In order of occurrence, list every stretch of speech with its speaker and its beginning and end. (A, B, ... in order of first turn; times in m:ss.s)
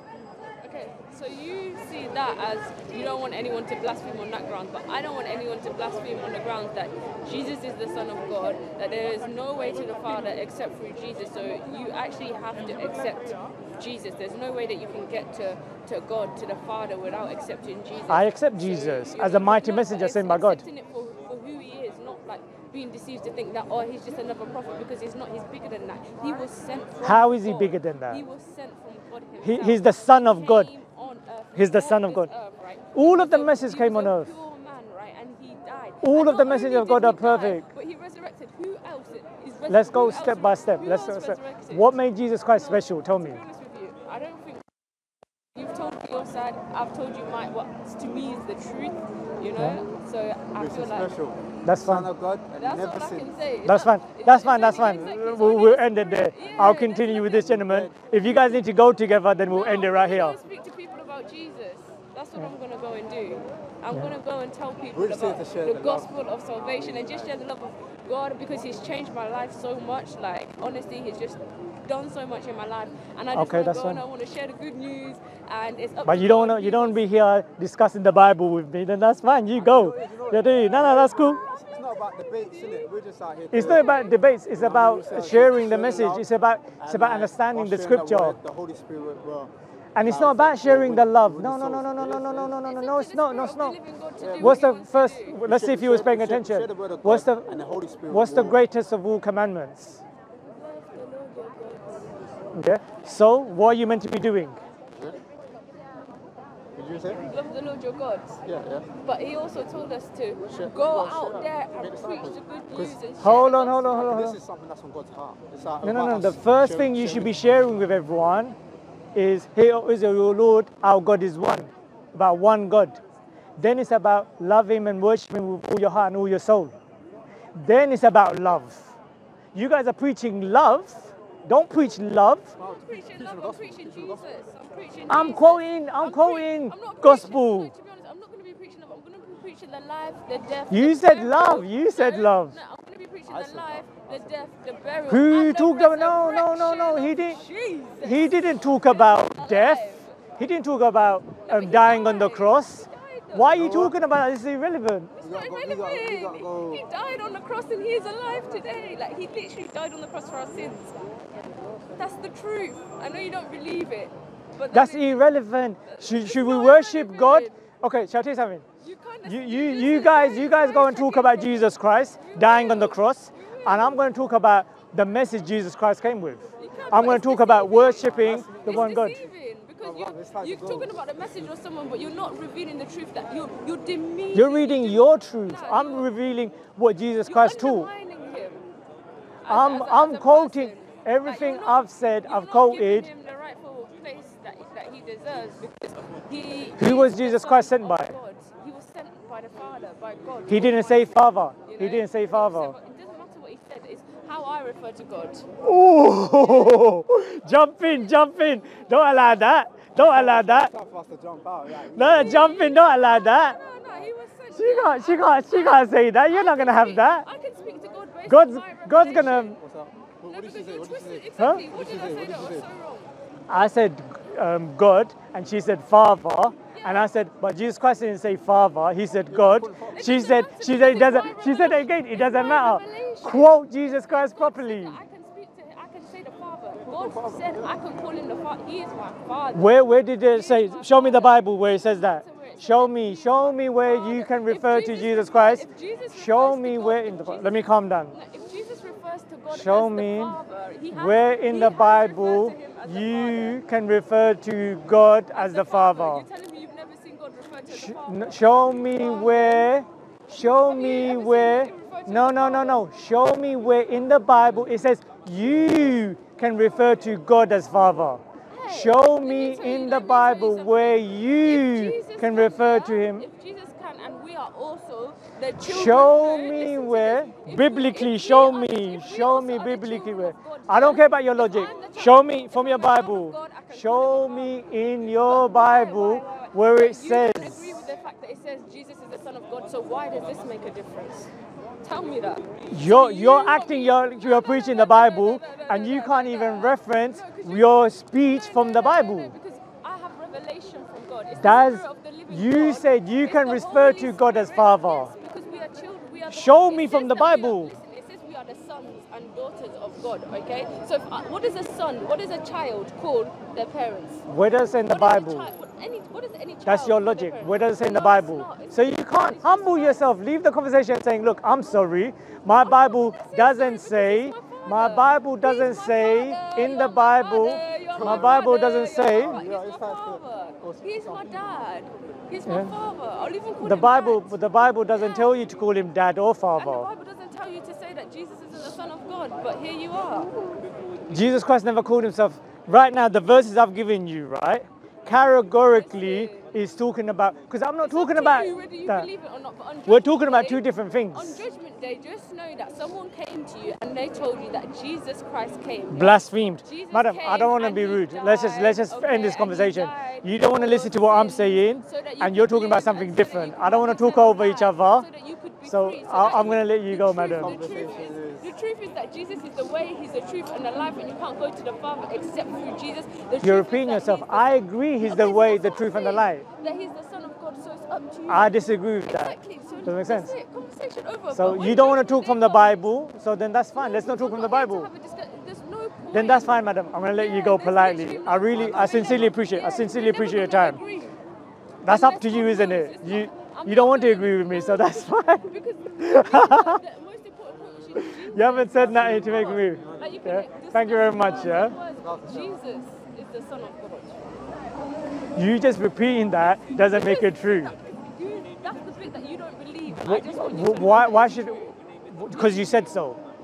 0:00.6-0:42.0 A
0:18.1-0:20.6 B
0:27.0-0:28.2 B
0:29.4-0:30.7 B
0:31.5-0:32.3 B
0:32.9-0:34.3 B
0:36.0-0:37.7 B
0:39.7-0:43.4 B
0:42.5-0:44.6 A
0:45.5-0:51.1 A
0:50.5-0:53.3 C
0:51.6-0:52.1 B
0:52.5-0:57.6 A
0:53.6-1:00.4 B
0:57.4-0:58.0 C
0:59.5-1:17.0 A
1:04.9-1:07.3 C
1:13.3-1:14.0 B
1:16.0-1:21.4 B
1:19.5-1:23.9 C
1:22.5-1:22.9 A
1:23.5-1:28.4 B
1:23.6-1:24.2 A
1:24.5-1:26.3 C
1:26.8-1:29.5 C
1:29.9-1:33.8 B
1:30.0-1:32.6 C
1:32.6-1:35.4 A
1:34.2-1:34.6 C
1:34.4-1:40.0 B
1:35.4-1:38.6 C
1:40.5-1:42.2 A
1:42.5-1:44.6 B
1:46.7-1:47.2 C
1:47.3-1:48.4 A
1:48.4-1:48.9 C
1:49.0-1:54.1 A
1:50.5-1:53.0 C
1:53.2-1:54.4 B
1:53.9-1:57.3 C
1:55.8-1:58.6 B
1:59.1-2:03.0 B
2:03.6-2:06.7 B
2:07.5-2:08.9 B
2:09.5-2:12.5 B
2:12.6-2:14.3 C
2:12.8-2:30.3 A
2:15.1-2:17.7 B
2:20.7-2:22.6 B
2:23.2-2:24.3 C
2:25.1-2:27.4 B
2:28.0-2:35.1 B
2:31.4-2:33.6 A
2:33.6-2:34.0 C
2:35.2-2:40.9 A
2:35.2-2:36.8 C
2:42.0-2:45.2 A
2:44.7-2:48.6 B
2:45.8-2:47.5 A
2:48.8-2:54.0 A
2:49.2-2:59.2 B
2:56.6-3:06.1 A
2:57.9-2:59.0 C
2:59.8-3:01.5 C
3:04.3-3:07.9 B
3:07.2-3:08.6 A
3:09.4-3:25.4 A
3:09.5-3:13.1 B
3:16.8-3:18.2 B
3:20.5-3:22.7 B
3:25.6-3:30.7 B
3:26.4-3:26.8 A
3:30.0-3:32.6 C
3:31.9-3:33.6 B
3:32.0-3:39.6 A
3:34.5-3:37.2 B
3:38.2-3:39.6 B
3:39.6-3:42.7 C
3:40.2-3:43.1 A
3:41.4-3:41.6 B
3:43.5-3:55.0 B
3:46.7-3:47.1 A
3:49.3-3:50.1 C
3:49.9-4:13.6 A
3:56.8-3:57.7 C
3:59.5-4:08.1 B
4:09.5-4:10.4 B
4:10.9-4:16.3 B
4:15.3-4:19.8 A
4:17.7-4:33.3 B
4:20.3-4:22.8 A
4:28.5-4:51.3 A
4:35.6-4:47.9 B
4:51.8-5:14.2 A
4:52.7-4:59.3 B
5:01.3-5:05.1 B
5:06.3-5:07.7 B
5:14.3-5:15.5 B
5:14.8-5:20.0 A
5:16.6-5:29.4 B
5:22.6-5:35.6 A
5:27.9-5:28.5 C
5:29.1-5:31.5 C
5:32.4-5:32.7 B
5:33.6-5:36.9 B
5:36.5-5:40.4 A
5:41.1-5:49.1 B
5:45.5-5:46.5 A
5:47.8-6:22.9 A
5:49.9-5:51.4 B
5:55.9-6:05.1 B
6:05.6-6:07.6 B
6:07.3-6:08.6 C
6:13.4-6:16.4 B
6:18.3-6:20.3 B
6:21.3-6:24.9 B
6:23.7-6:31.2 A
6:26.1-6:30.8 B
6:28.5-6:29.3 C
6:31.8-6:35.4 B
6:31.8-6:44.2 A
6:36.0-6:36.8 B
6:37.9-6:41.8 B
6:38.7-6:40.2 C
6:42.0-6:42.6 C
6:45.4-6:47.7 B
6:46.9-6:51.8 A
6:49.9-6:53.2 B
6:52.3-6:52.6 A